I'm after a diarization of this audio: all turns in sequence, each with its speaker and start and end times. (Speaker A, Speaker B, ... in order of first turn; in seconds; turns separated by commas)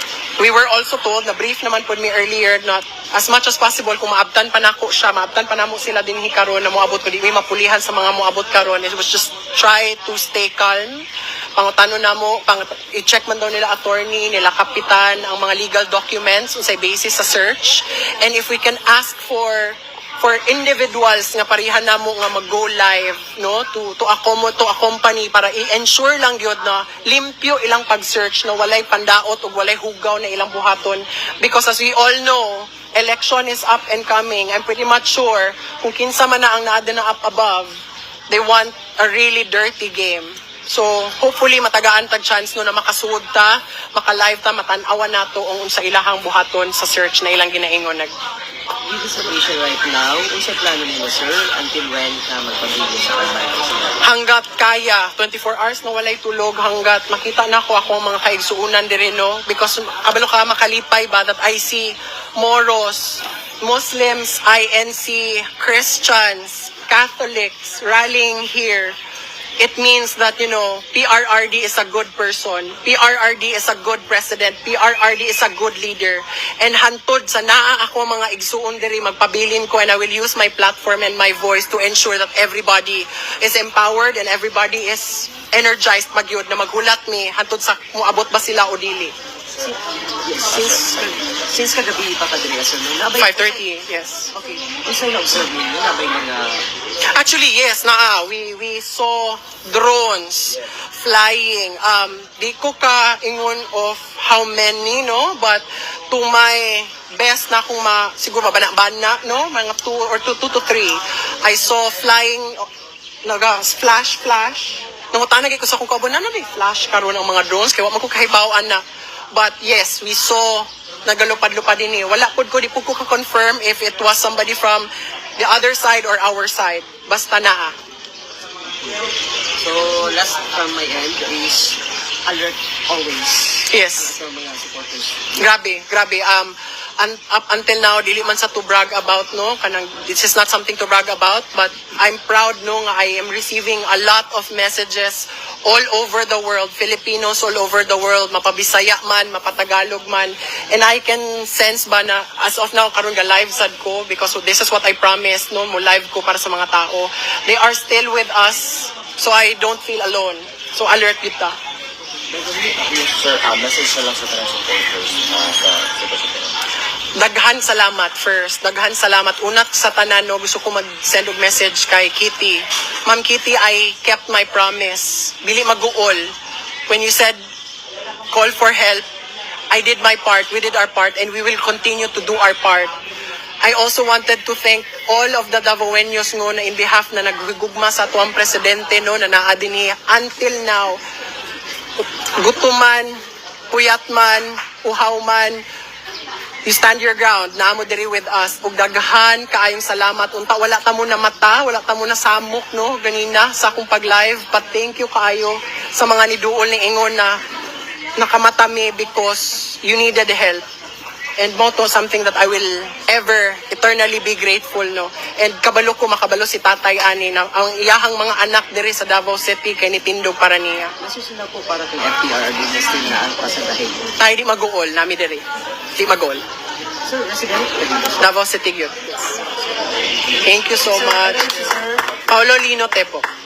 Speaker A: 0.4-37.7, Speaker A: 38.3-48.1, Speaker B: 48.9-54.0, Speaker A: 54.0-69.0, Speaker A: 69.6-89.1, Speaker B: 90.2-93.6, Speaker A: 93.2-94.3, Speaker B: 94.3-96.7, Speaker A: 97.1-112.7, Speaker A: 113.2-127.8, Speaker B: 129.6-135.3, Speaker A: 133.7-134.1, Speaker A: 135.4-161.5, Speaker B: 162.3-163.3, Speaker C: 163.2-166.5, Speaker A: 167.2-176.3, Speaker A: 176.9-177.4, Speaker A: 178.3-179.1, Speaker A: 179.7-182.9, Speaker A: 183.6-191.0, Speaker A: 192.4-193.2, Speaker A: 193.7-195.6, Speaker A: 196.6-207.4, Speaker A: 208.2-210.7, Speaker A: 211.4-220.9, Speaker B: 221.0-224.1, Speaker A: 224.2-225.4, Speaker A: 225.9-226.4, Speaker B: 227.1-228.2, Speaker A: 228.2-229.3, Speaker A: 230.4-231.6, Speaker B: 230.9-232.0, Speaker A: 232.3-233.2